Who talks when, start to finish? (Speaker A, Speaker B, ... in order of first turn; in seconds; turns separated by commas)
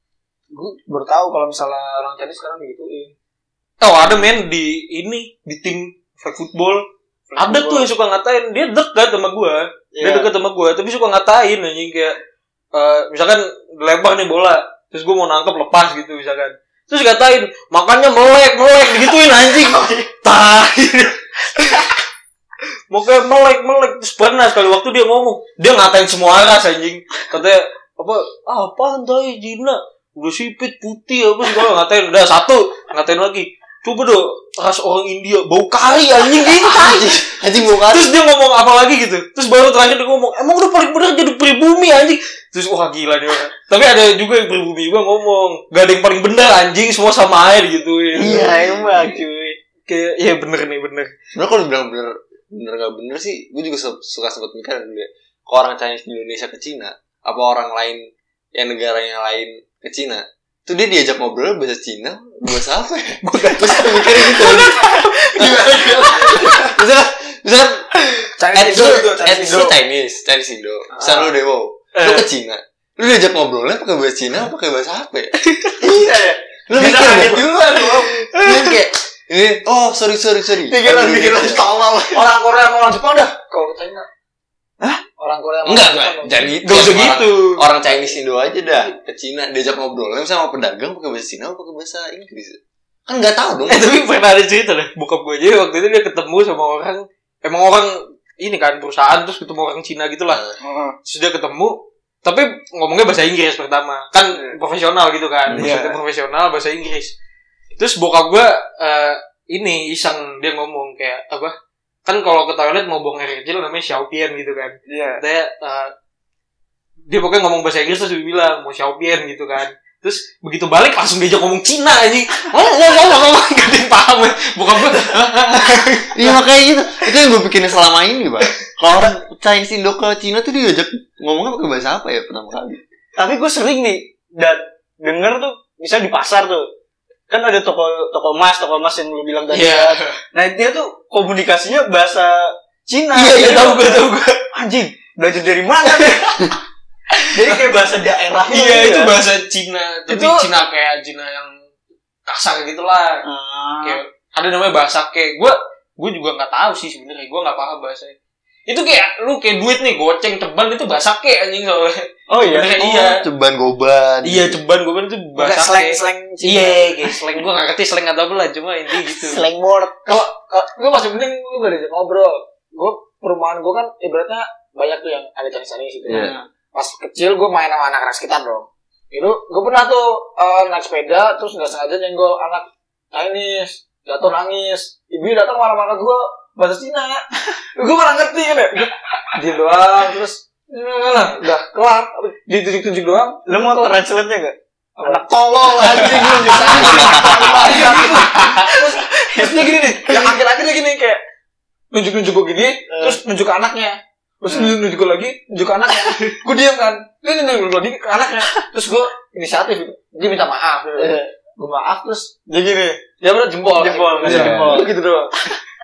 Speaker A: 0.5-3.1, Speaker B: 3.8-12.2, Speaker A: 7.3-7.8, Speaker C: 9.9-10.3, Speaker B: 12.7-22.0, Speaker C: 19.7-20.0, Speaker B: 22.9-37.2, Speaker D: 36.6-38.1, Speaker B: 37.8-48.6, Speaker C: 48.2-49.6, Speaker D: 48.2-49.2, Speaker B: 49.9-51.1, Speaker D: 51.4-58.0, Speaker D: 58.5-75.3, Speaker C: 63.4-66.8, Speaker A: 68.4-69.6, Speaker C: 68.4-69.7, Speaker B: 72.0-72.3, Speaker B: 75.5-75.8, Speaker C: 75.8-78.4, Speaker D: 76.7-81.7, Speaker C: 80.7-82.3, Speaker A: 82.1-84.1, Speaker A: 85.2-86.8, Speaker D: 85.7-93.9, Speaker B: 86.6-87.7, Speaker B: 93.7-100.4, Speaker D: 100.3-100.6, Speaker C: 100.7-101.0, Speaker B: 101.0-107.1, Speaker D: 105.5-105.8, Speaker C: 105.5-106.0, Speaker B: 107.8-111.5, Speaker B: 112.1-115.9, Speaker C: 114.9-115.2, Speaker B: 117.1-126.4, Speaker D: 126.1-132.8, Speaker C: 133.2-136.7, Speaker C: 137.3-146.6, Speaker B: 139.5-140.2, Speaker B: 143.1-144.4, Speaker B: 147.2-147.6, Speaker C: 147.3-149.2, Speaker B: 148.5-151.5, Speaker A: 150.1-150.4, Speaker B: 152.3-153.2, Speaker C: 153.2-154.0, Speaker B: 153.8-158.1, Speaker B: 158.7-163.2, Speaker C: 162.3-162.8, Speaker D: 162.8-164.6, Speaker B: 164.2-169.4, Speaker C: 165.4-167.1, Speaker A: 165.8-166.7, Speaker C: 169.1-169.9, Speaker A: 169.7-194.0, Speaker D: 176.1-176.3, Speaker C: 176.1-176.4, Speaker C: 193.5-200.4, Speaker A: 195.0-201.2, Speaker B: 195.8-198.6, Speaker D: 196.6-197.6, Speaker A: 201.9-215.3, Speaker C: 202.9-203.2, Speaker C: 204.5-204.8, Speaker C: 211.0-211.3, Speaker C: 212.5-213.0, Speaker C: 213.8-214.9, Speaker D: 214.2-214.9